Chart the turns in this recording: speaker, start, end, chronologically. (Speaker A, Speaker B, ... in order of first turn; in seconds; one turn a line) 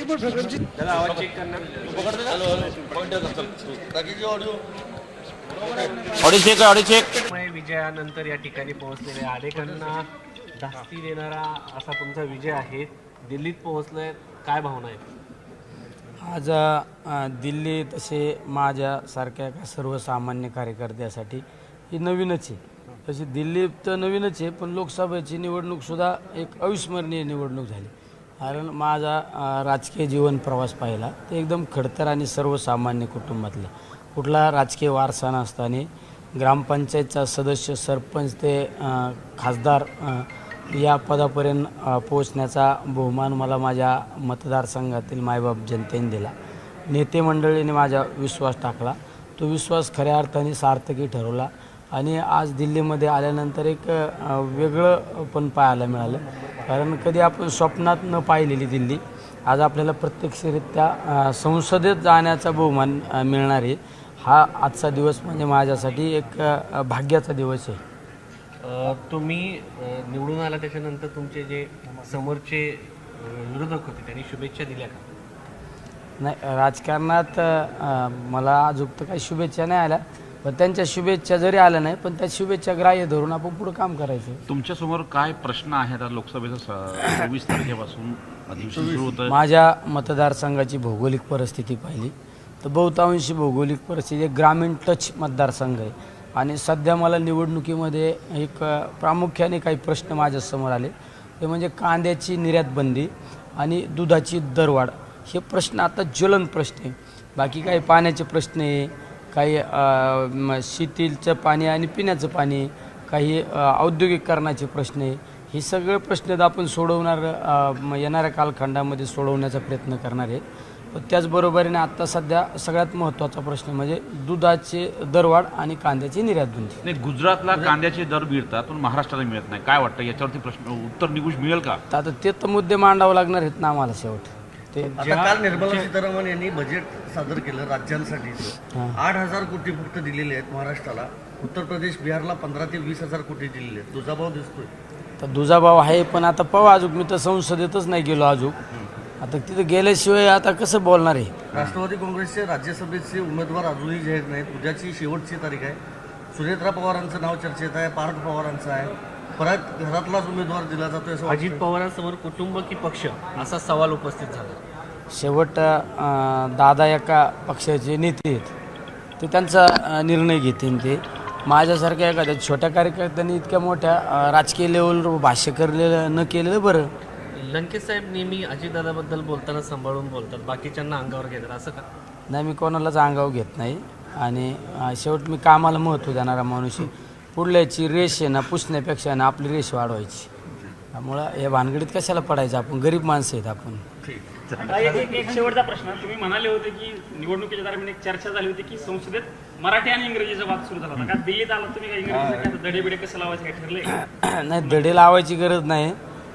Speaker A: 0.7-2.5
Speaker B: 2.1-3.7
Speaker C: 3.9-4.6
Speaker C: 5.6-5.9
Speaker B: 6.2-7.0
Speaker A: 7.1-15.0
Speaker D: 16.2-46.3
Speaker D: 46.9-67.8
Speaker A: 68.6-75.0
Speaker D: 76.2-84.4
Speaker B: 84.5-89.3
Speaker C: 88.7-89.1
Speaker D: 89.2-126.8
Speaker B: 126.8-131.8
Speaker D: 131.9-135.4
Speaker C: 135.0-144.7
Speaker A: 135.5-135.9
Speaker D: 138.7-139.0
Speaker D: 145.2-148.6
Speaker D: 149.2-151.3
Speaker C: 151.5-155.8
Speaker C: 156.3-161.6
Speaker A: 161.2-164.6
Speaker D: 165.1-168.5
Speaker D: 169.2-176.9
Speaker A: 177.3-181.8
Speaker D: 182.3-190.3
Speaker D: 190.9-193.8
Speaker C: 194.0-194.7
Speaker B: 194.5-195.0
Speaker E: 194.7-203.9
Speaker C: 202.1-202.6
Speaker D: 203.9-206.0